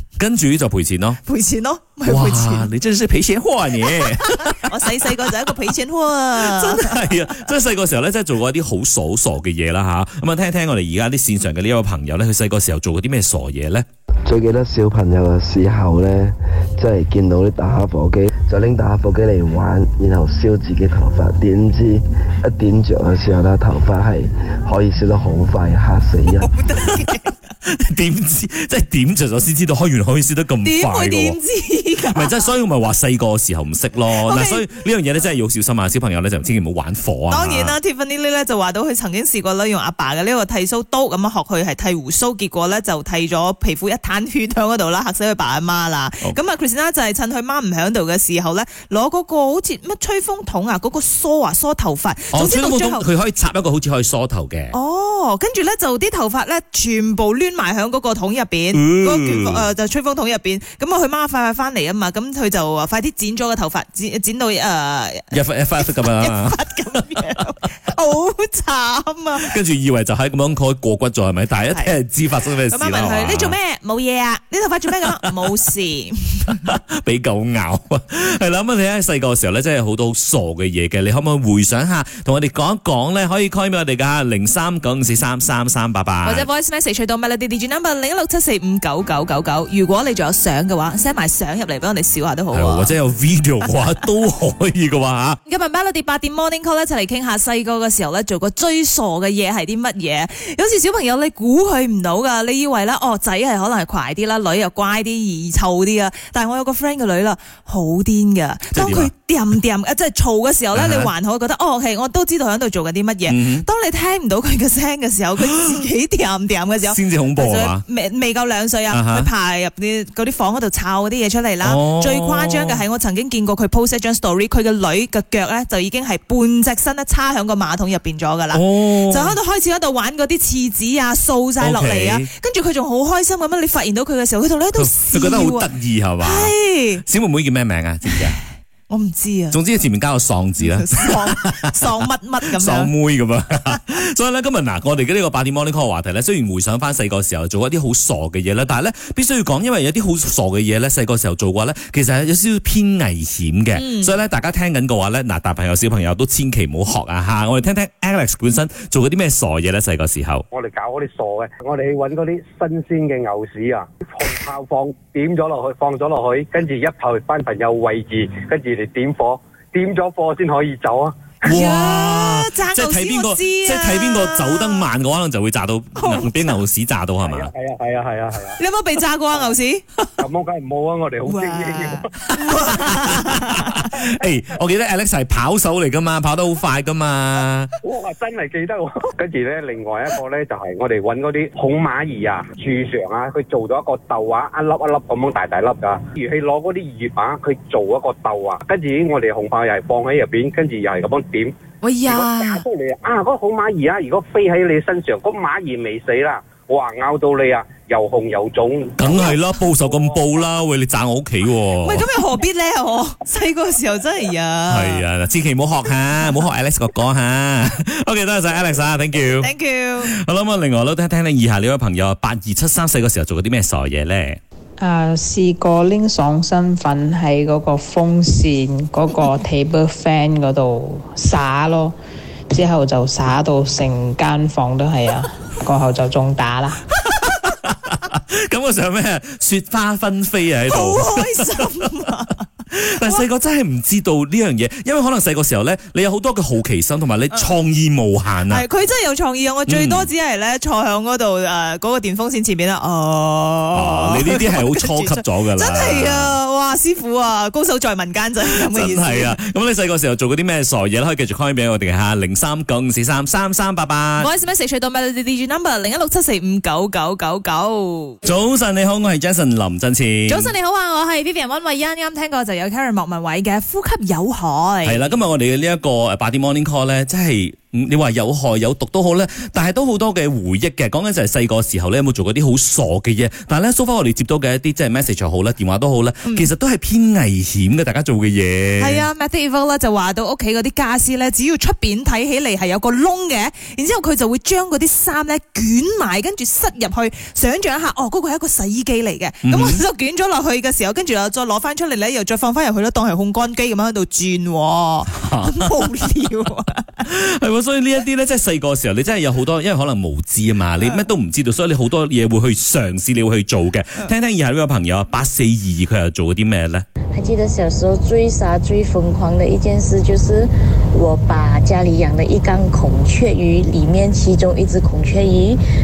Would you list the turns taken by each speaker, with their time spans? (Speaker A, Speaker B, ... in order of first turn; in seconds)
Speaker A: 0.2-1.2, 2.0-4.7, 6.3-13.8, 27.6-31.4, 32.1-37.8, 52.3-54.8, 58.7-59.6, 65.3-67.0, 69.5-73.6, 76.6-86.5, 92.5-95.4, 108.7-109.1, 110.7-111.1, 113.3-113.7, 116.8-117.8, 118.9-119.3, 121.6-122.8, 128.5-129.4, 131.6-132.3, 134.8-138.4, 139.5-141.6, 142.6-160.4, 171.5-177.5, 182.4-187.7, 209.0-212.1, 214.7-219.5, 220.0-224.4, 237.2-242.1, 242.7-248.7, 249.7-250.1, 253.7-256.4, 258.6-264.3, 268.2-270.5, 274.8-289.1, 299.4-299.8, 305.1-305.8, 307.0-316.9
Speaker B: 1.2-2.7, 3.9-7.3, 26.4-27.3, 30.6-32.4, 34.2-34.6, 37.3-53.0, 54.7-65.3, 65.9-69.5, 71.7-72.0, 72.7-76.6, 86.2-93.0, 95.5-135.7, 136.2-137.0, 138.9-139.6, 140.6-142.9, 153.7-154.1, 171.5-174.8, 176.0-176.6, 178.6-179.8, 181.3-183.8, 201.8-202.6, 211.8-215.0, 219.2-220.1, 240.7-242.4, 248.5-259.4, 264.2-268.2, 270.3-275.0, 288.8-307.0
Speaker C: 14.2-26.5
Speaker D: 160.5-171.6, 177.2-178.6, 180.2-182.1, 187.8-201.5, 202.1-209.1
Speaker E: 224.8-231.9, 232.5-236.8
Speaker F: 317.1-325.6